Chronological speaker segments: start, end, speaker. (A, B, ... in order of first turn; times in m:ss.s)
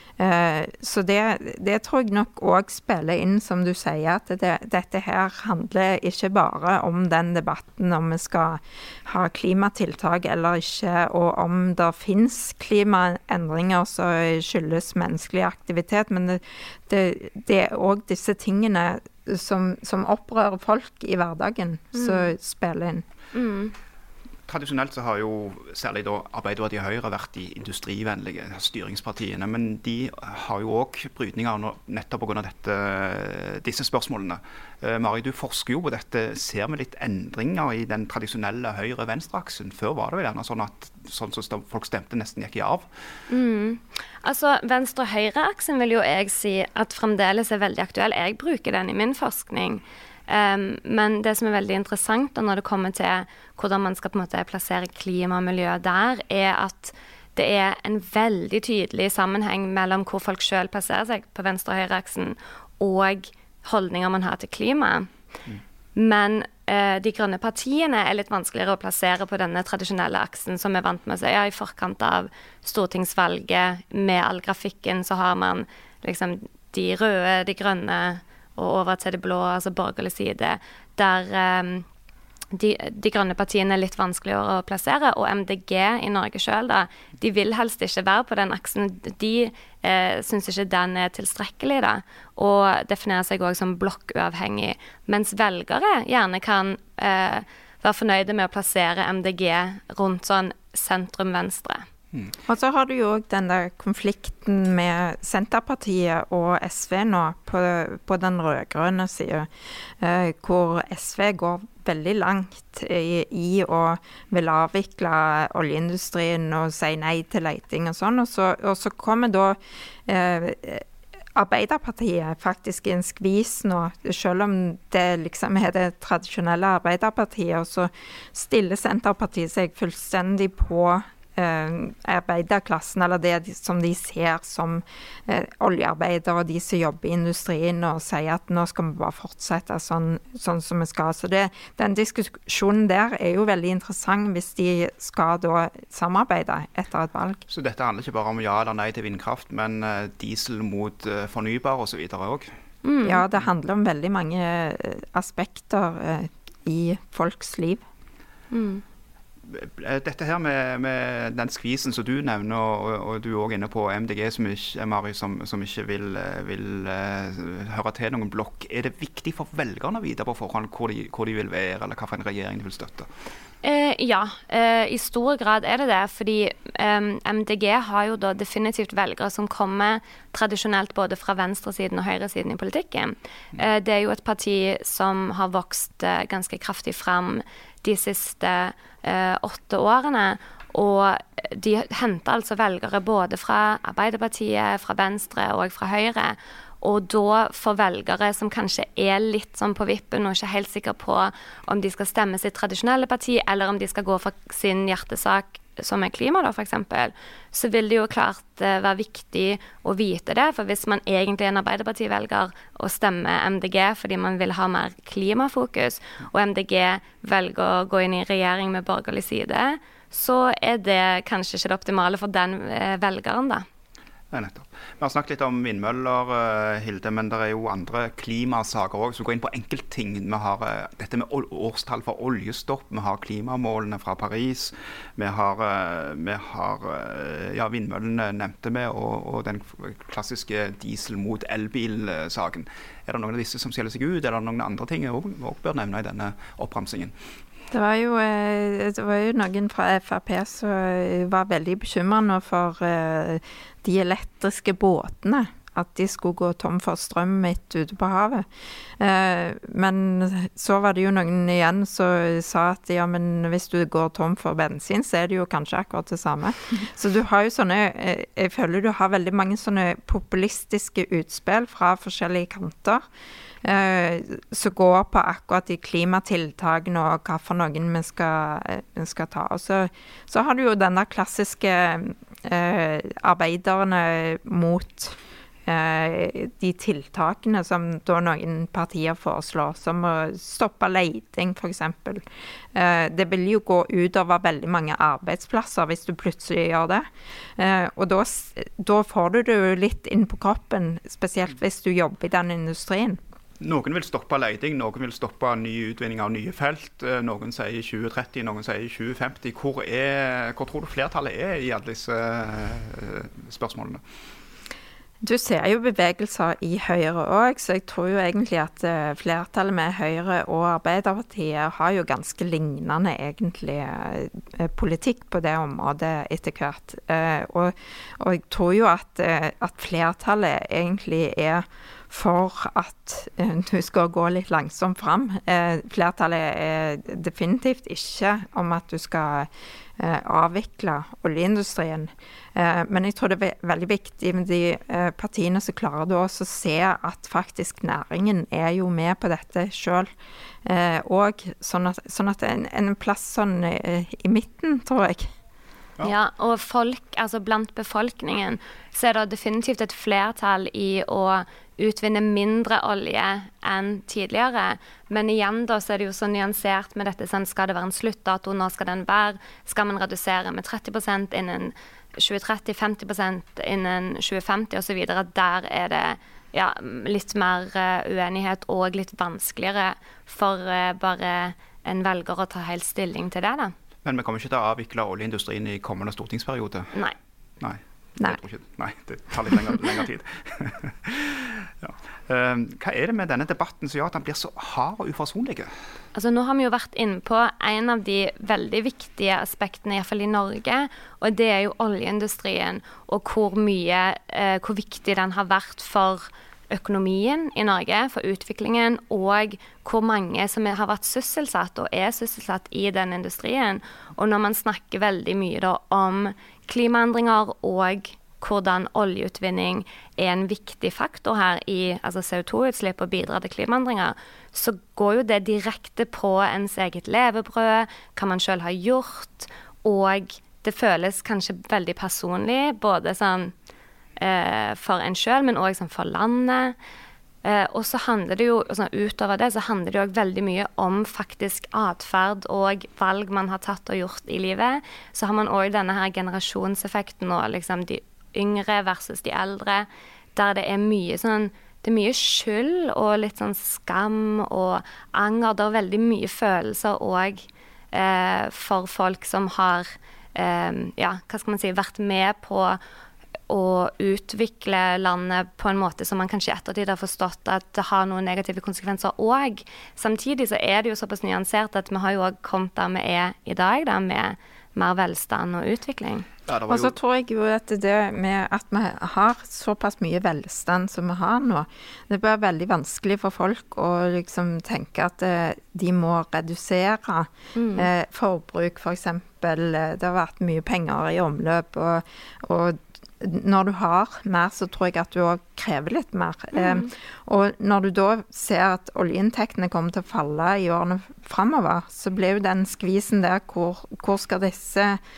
0:00.2-0:23.0 A
0:21.9-0:22.3 B
0:23.3-0:23.7 B
0:24.5-0:42.9 C
0:43.3-1:05.1 B
1:05.9-1:21.9 B
1:22.5-1:41.8 B
1:42.5-1:49.5 A
1:50.0-2:27.4 A
2:27.5-2:32.5 C
2:32.8-2:33.2 B
2:33.0-2:37.8 A
2:38.5-2:38.8 B
2:39.4-2:53.1 C
2:53.6-3:43.6 B
3:44.3-4:07.1 C
4:07.7-4:18.5 A
4:19.0-4:33.0 A
4:33.6-4:57.1 A
4:57.6-5:03.2 A
5:03.6-5:14.0 C
5:15.2-5:50.1 A
5:50.6-5:55.3 A
5:56.0-6:23.7 B
6:24.0-6:26.9 C
6:27.6-6:35.7 C
6:36.1-7:13.5 B
7:14.2-7:16.8 B
7:17.4-7:42.8 B
7:43.5-7:56.3 B
7:56.5-7:57.0 C
7:56.7-8:25.0 A
8:07.5-8:07.9 B
8:16.6-8:16.8 B